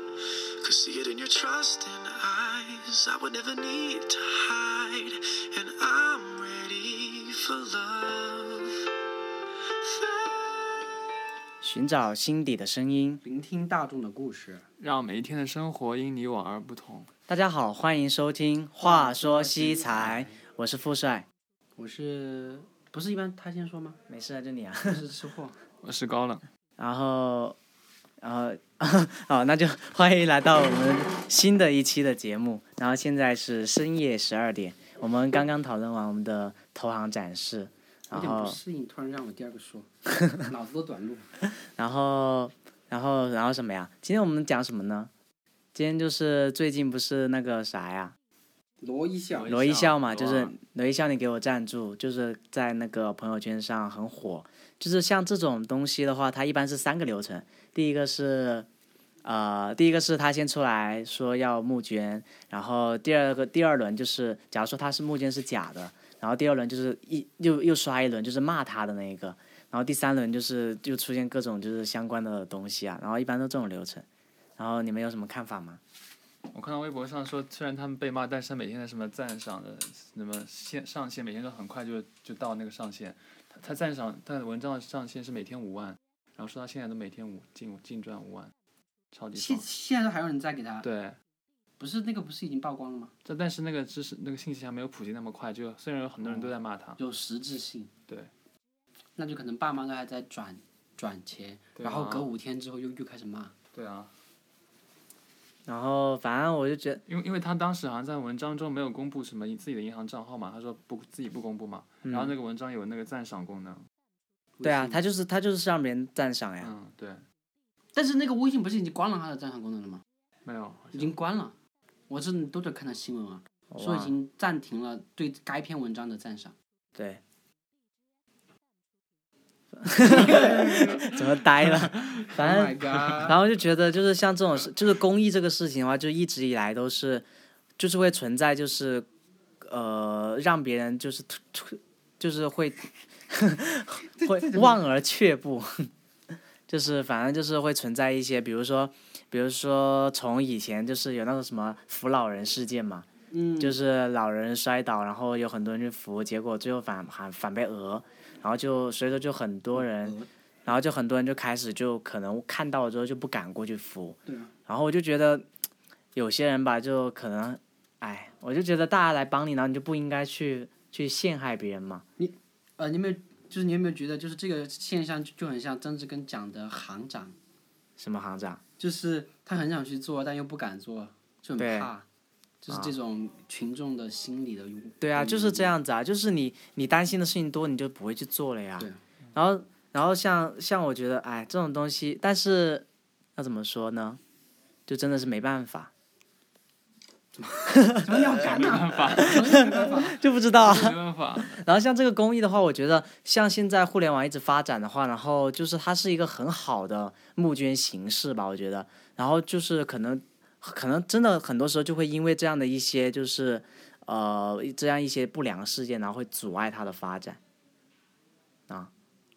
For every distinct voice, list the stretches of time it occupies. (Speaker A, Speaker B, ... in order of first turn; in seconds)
Speaker A: 0.6-8.9, 9.8-11.0
Speaker B: 11.6-13.2, 17.3-21.3, 24.1-25.0, 26.8-27.6, 28.2-38.6, 40.2-40.5, 41.6-45.1, 45.7-48.1, 49.5-58.7, 59.2-74.0, 74.6-75.8, 105.7-107.0, 112.0-112.3, 114.6-116.7, 123.7-124.2, 127.0-127.2, 129.8-137.2, 137.8-139.1, 139.6-145.9, 146.7-153.1, 153.6-165.5, 166.2-172.1, 178.0-178.6, 181.6-181.9, 185.0-194.2, 194.9-195.9, 197.7-198.5, 199.2-217.4
Speaker C: 13.2-14.7, 18.8-20.4, 21.8-24.0, 24.8-25.6, 38.1-41.3, 48.8-49.6, 89.3-90.9, 91.8-93.1, 96.2-97.9, 99.2-103.5, 114.6-115.0, 118.0-120.0, 120.9-121.5, 122.1-126.5, 130.0-131.0, 131.9-133.4, 144.1-144.8, 153.3-153.8, 159.8-160.3, 164.3-164.5, 172.2-177.4, 178.8-182.1, 182.6-185.7, 197.4-200.2
Speaker D: 14.8-17.1, 25.8-26.4, 49.4-50.5, 76.5-88.5, 89.1-89.7, 90.8-91.2, 93.2-97.0, 101.8-102.3, 103.7-104.1, 107.1-113.8, 116.6-117.2, 120.5-121.1, 130.2-131.0, 198.3-201.6